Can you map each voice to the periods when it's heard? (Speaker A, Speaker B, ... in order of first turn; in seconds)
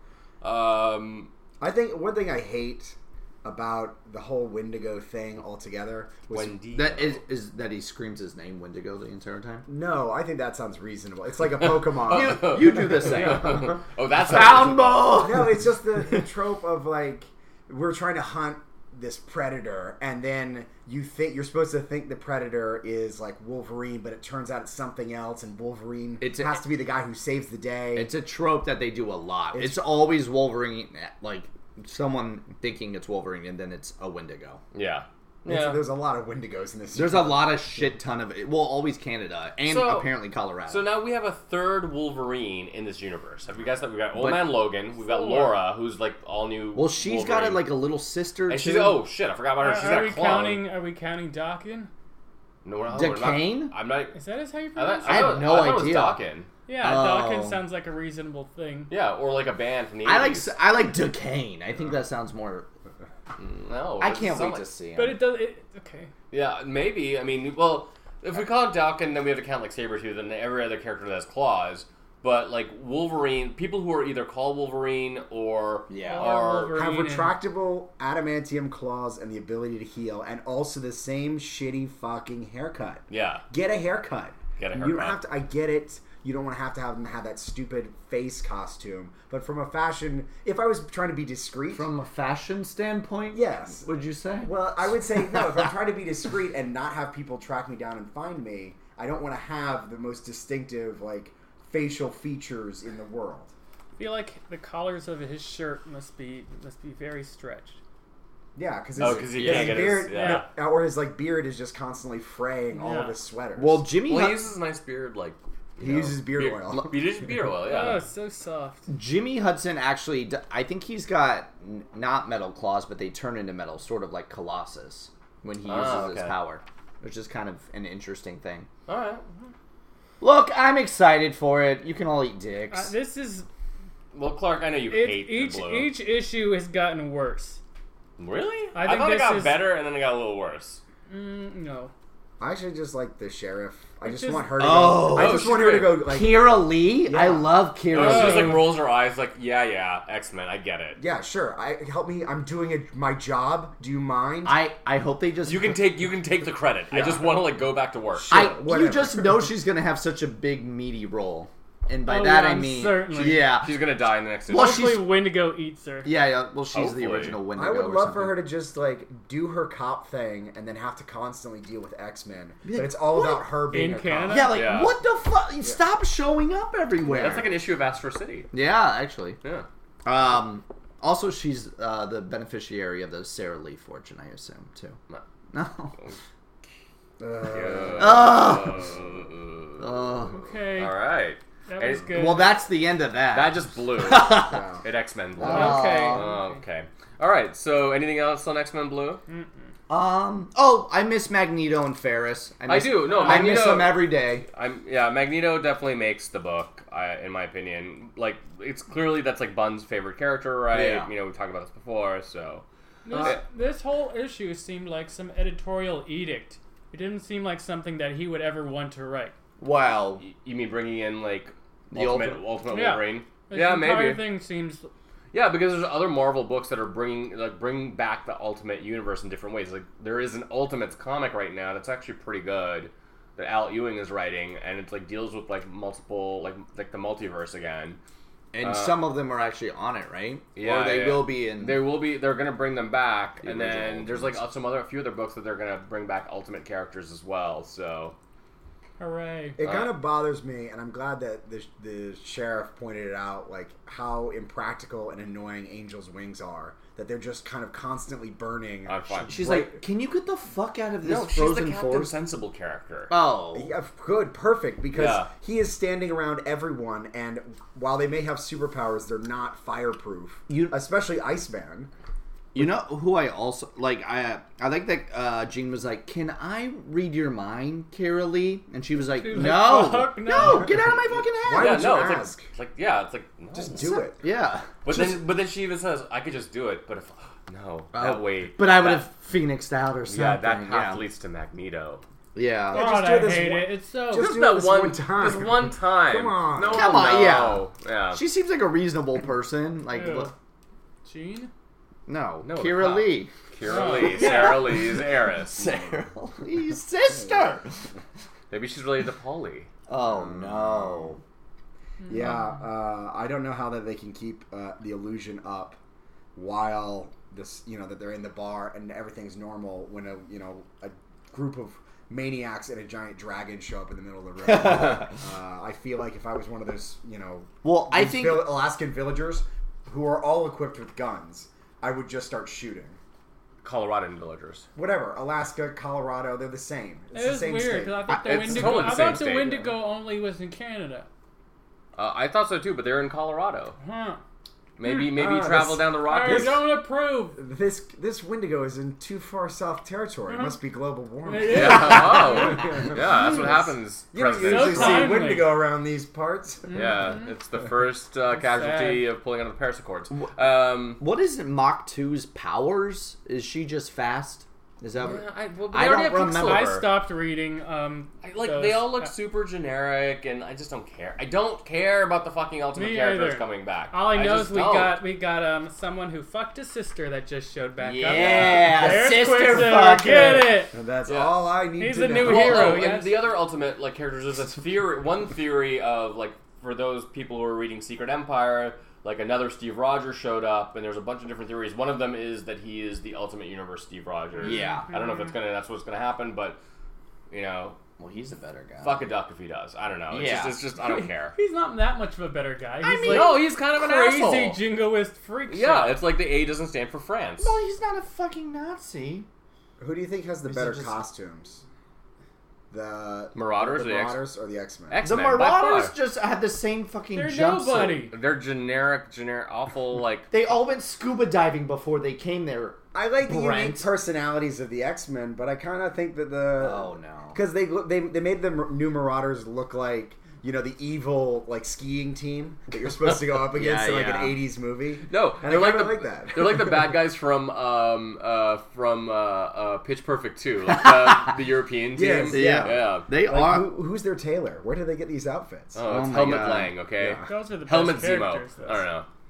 Speaker A: 0.4-1.3, 6.3-7.2, 11.6-15.2, 34.7-35.8, 39.6-47.7, 48.5-50.6, 52.6-54.2, 54.8-56.5, 58.9-60.5, 63.4-64.7, 66.3-76.8, 83.1-83.4, 84.6-85.2, 109.0-110.4, 114.0-118.0, 125.7-126.4, 128.9-129.2, 134.1-135.9, 138.2-140.8, 145.1-146.0, 147.9-151.0, 155.4-158.6, 163.6-164.9, 166.7-167.4, 174.5-175.0, 177.1-178.5, 179.4-179.7, 187.5-190.1, 190.8-192.4, 193.3-199.2, 202.7-212.6, 220.2-224.2, 225.3-238.0, 238.6-239.0, 240.6-248.2, 249.6-249.9, 258.9-259.7, 261.0-263.1, 264.9-265.3, 281.5-284.1, 284.8-289.1, 290.1-292.0, 294.2-298.2, 302.4-305.7, 308.5-309.7, 333.6-334.7, 338.3-339.6, 342.0-343.8, 344.8-346.6, 351.4-355.3, 356.7-361.0, 365.0-366.9, 368.2-375.0, 378.1-378.8, 381.1-381.4, 382.2-396.6, 397.3-397.8, 398.8-401.4, 403.1-404.6, 405.5-407.6, 413.3-414.2, 414.9-415.9, 418.1-420.3, 435.1-443.1, 445.8-449.1
Speaker B: 1.6-6.6, 9.7-13.5, 15.1-28.1, 29.5-29.9, 35.5-37.7, 76.7-91.9, 93.3-93.9, 94.4-103.5, 108.6-113.9, 115.8-117.0, 142.4-147.6, 151.0-154.6, 156.9-157.4, 158.2-159.5, 167.5-174.5, 187.2-188.3, 194.3-194.8, 249.6-259.8, 263.5-271.9, 280.4-282.5, 283.5-284.2, 292.7-297.1, 310.0-311.1, 312.1-315.8, 316.4-333.0, 334.8-339.7, 345.0-346.7, 347.4-356.9, 380.7-382.9, 409.8-411.6, 412.7-415.0, 422.9-437.0, 441.9-445.9, 447.0-447.3
Speaker C: 6.7-9.7, 12.1-16.3, 26.2-26.6, 27.9-34.6, 36.9-40.9, 44.1-44.6, 46.8-49.0, 52.9-53.7, 55.0-56.2, 56.8-57.6, 60.0-62.7, 64.0-65.2, 75.9-76.3, 91.7-94.5, 95.3-95.7, 109.0-110.0, 113.6-114.4, 118.9-128.7, 130.2-132.9, 144.6-148.6, 154.4-155.8, 158.3-163.9, 164.5-165.1, 166.0-168.4, 172.7-173.5, 174.3-177.6, 178.5-179.4, 180.1-185.0, 185.5-186.0, 188.0-189.0, 189.8-190.4, 192.1-194.7, 195.4-196.3, 199.9-204.5, 210.7-211.1, 219.6-220.2, 221.9-222.4, 238.5-241.8, 243.4-244.4, 259.3-262.1, 263.1-263.7, 270.5-270.8, 272.6-281.9, 284.2-285.2, 287.9-291.0, 292.4-292.9, 296.6-300.3, 302.1-303.3, 304.0-304.7, 305.5-307.9, 309.9-311.2, 324.4-325.1, 327.6-328.6, 338.1-338.6, 360.1-366.8, 377.8-380.7, 394.4-394.9, 398.0-399.1, 400.1-400.6, 402.8-403.4, 407.4-409.3, 410.5-411.0, 415.0-418.1, 420.3-423.9, 426.6-427.4, 433.5-434.4, 442.3-443.8, 445.8-446.8
Speaker D: 45.0-45.6, 49.6-51.9, 54.1-55.6, 56.7-58.9, 65.0-66.1, 76.0-77.4, 104.0-107.8, 110.1-110.5, 112.7-113.2, 117.6-118.9, 132.7-133.5, 134.9-137.6, 138.8-139.6, 141.1-141.9, 144.0-144.6, 147.9-148.7, 162.1-163.5, 164.5-166.1, 173.7-174.6, 190.3-190.9, 191.7-192.6, 195.4-196.5, 199.3-199.6, 203.1-203.8, 213.1-219.3, 222.7-224.9, 249.0-249.6, 279.1-280.8, 292.7-294.3, 299.9-300.3, 301.1-301.5, 303.6-304.8, 312.1-312.5, 337.1-341.1, 343.8-344.2, 346.0-347.4, 350.3-350.6, 351.2-353.6, 354.4-355.6, 356.7-357.3, 358.3-359.0, 366.3-369.1, 372.8-380.8, 381.8-383.2, 394.5-395.2, 400.8-406.0, 417.1-418.1, 447.3-448.9